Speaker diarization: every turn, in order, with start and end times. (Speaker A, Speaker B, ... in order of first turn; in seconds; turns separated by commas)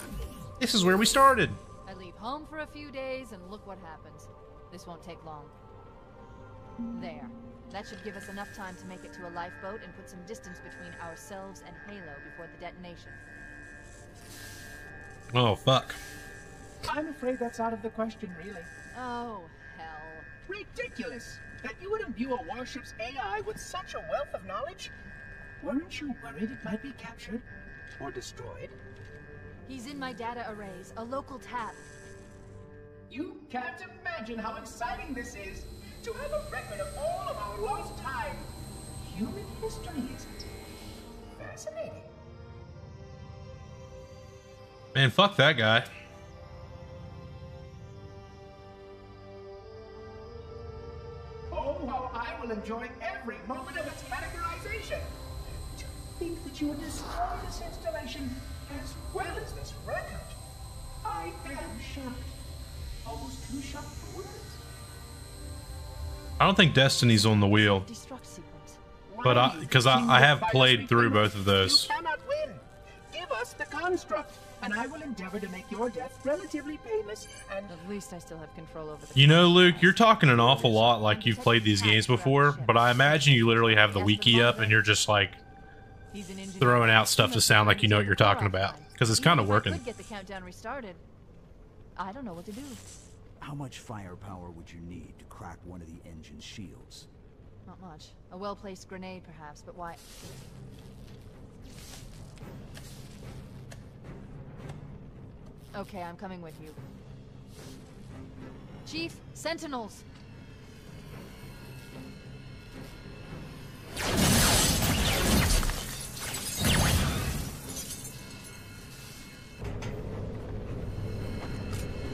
Speaker A: 0.6-1.6, Speaker B: 1.9-5.5, Speaker B: 6.9-13.2, Speaker A: 15.3-16.0, Speaker C: 16.8-18.7, Speaker B: 18.9-20.3, Speaker C: 20.5-24.9, Speaker C: 25.6-27.4, Speaker C: 28.0-28.8, Speaker B: 29.7-31.8, Speaker C: 33.1-38.5, Speaker C: 39.0-40.5, Speaker C: 41.4-42.1, Speaker A: 44.9-45.9, Speaker C: 51.5-55.1, Speaker C: 55.7-60.4, Speaker C: 61.0-62.4, Speaker C: 63.0-64.6, Speaker A: 66.4-67.9, Speaker B: 67.6-68.8, Speaker C: 69.1-77.8, Speaker A: 69.2-71.9, Speaker B: 77.7-84.8, Speaker A: 79.2-85.4, Speaker B: 86.1-91.0, Speaker A: 86.6-89.8, Speaker B: 92.0-92.8, Speaker D: 93.4-97.1, Speaker B: 97.7-100.0, Speaker B: 105.7-106.8, Speaker B: 108.8-110.0